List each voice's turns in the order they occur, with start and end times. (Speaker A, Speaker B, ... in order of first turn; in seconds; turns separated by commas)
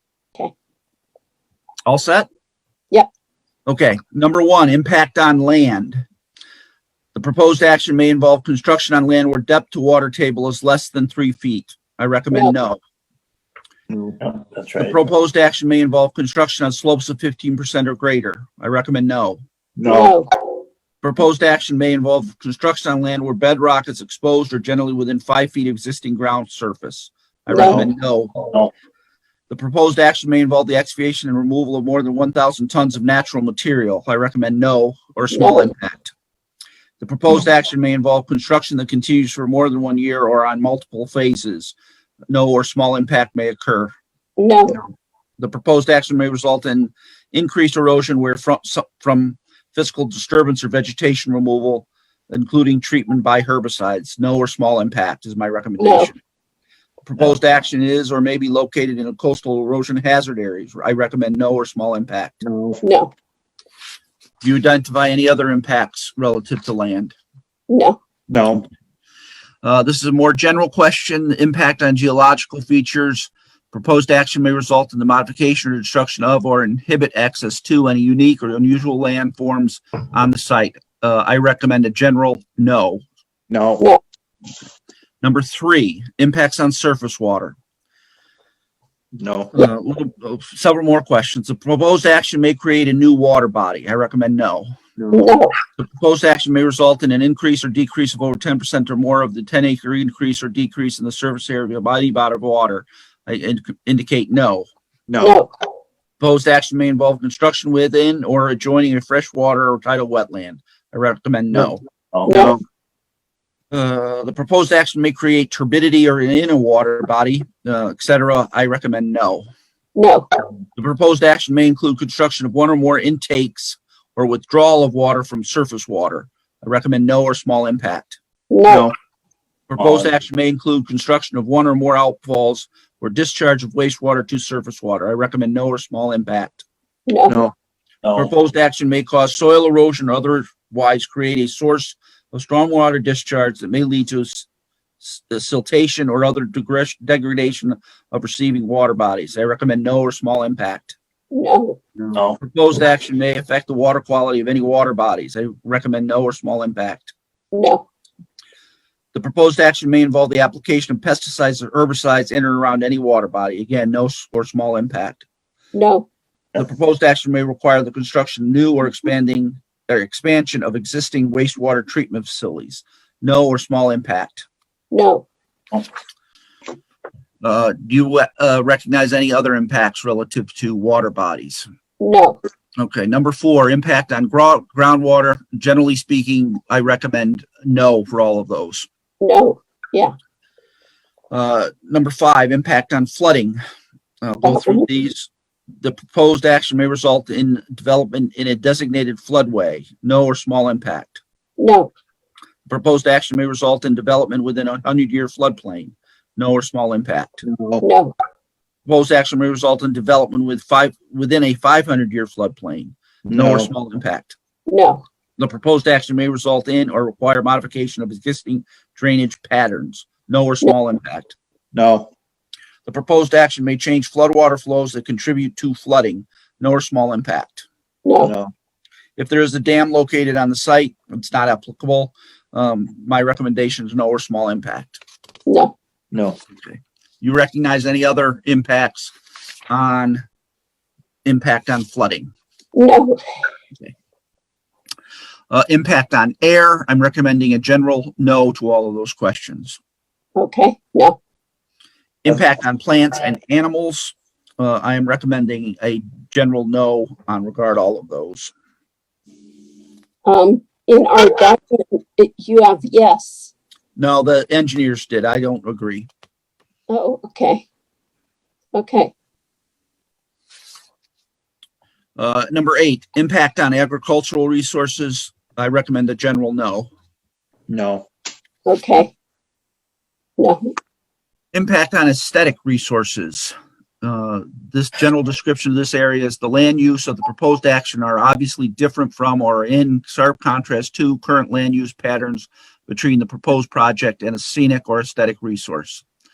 Speaker A: 1.9-2.3, Speaker A: 3.6-6.0, Speaker A: 7.1-12.8, Speaker B: 13.9-15.0, Speaker A: 14.8-19.4, Speaker B: 19.8-20.2, Speaker C: 19.9-20.3, Speaker A: 21.0-28.3, Speaker C: 27.5-27.8, Speaker B: 27.7-28.7, Speaker A: 29.5-36.1, Speaker C: 35.3-35.7, Speaker A: 37.0-41.7, Speaker A: 42.3-43.9, Speaker C: 44.4-44.8, Speaker A: 45.4-56.2, Speaker C: 55.8-56.1, Speaker A: 57.0-62.4, Speaker B: 62.5-62.8, Speaker C: 62.8-63.1, Speaker A: 64.4-67.1, Speaker C: 67.7-68.0, Speaker B: 68.3-68.7, Speaker A: 69.6-83.0, Speaker B: 83.5-83.9, Speaker A: 85.2-87.5, Speaker B: 89.2-89.6, Speaker A: 89.5-94.7, Speaker B: 95.0-95.3, Speaker C: 95.1-95.5, Speaker A: 95.8-104.7, Speaker B: 105.1-105.4, Speaker C: 105.2-105.5, Speaker A: 106.2-111.8, Speaker B: 111.5-112.6, Speaker C: 112.3-112.6, Speaker A: 113.7-119.5, Speaker C: 120.0-120.3, Speaker A: 120.8-128.2, Speaker C: 128.5-128.9, Speaker B: 128.7-128.9, Speaker A: 129.7-136.6, Speaker B: 129.8-130.1, Speaker C: 137.1-137.4, Speaker B: 137.3-138.3, Speaker A: 138.1-144.5, Speaker A: 145.0-150.9, Speaker C: 151.3-151.8, Speaker B: 152.1-152.4, Speaker A: 152.4-157.1, Speaker C: 157.5-157.8, Speaker A: 159.1-165.2, Speaker C: 165.7-166.1, Speaker A: 166.6-174.4, Speaker C: 174.9-175.2, Speaker A: 177.4-181.7, Speaker C: 182.0-182.4, Speaker A: 182.8-188.9, Speaker C: 189.2-190.1, Speaker A: 191.3-193.6, Speaker A: 194.2-195.3, Speaker C: 194.4-194.9, Speaker A: 195.8-201.2, Speaker C: 201.6-201.9, Speaker A: 202.7-207.4, Speaker B: 207.4-207.8, Speaker C: 207.8-208.1, Speaker A: 208.8-214.3, Speaker B: 213.2-213.7, Speaker C: 214.7-215.0, Speaker A: 215.4-221.3, Speaker B: 221.7-222.1, Speaker A: 222.8-227.7, Speaker C: 228.0-228.3, Speaker B: 228.2-228.5, Speaker A: 229.2-235.0, Speaker C: 235.5-235.7, Speaker B: 236.1-236.4, Speaker A: 236.6-239.1, Speaker A: 239.7-240.2, Speaker A: 241.2-242.3, Speaker C: 242.7-243.2, Speaker A: 245.5-249.8, Speaker C: 250.3-251.2, Speaker A: 252.2-258.5, Speaker C: 260.2-263.5, Speaker A: 263.9-266.1, Speaker C: 266.9-267.6, Speaker C: 268.7-269.1, Speaker A: 272.1-276.9, Speaker B: 277.7-278.1, Speaker C: 278.6-279.1, Speaker C: 280.4-280.7, Speaker A: 281.5-296.0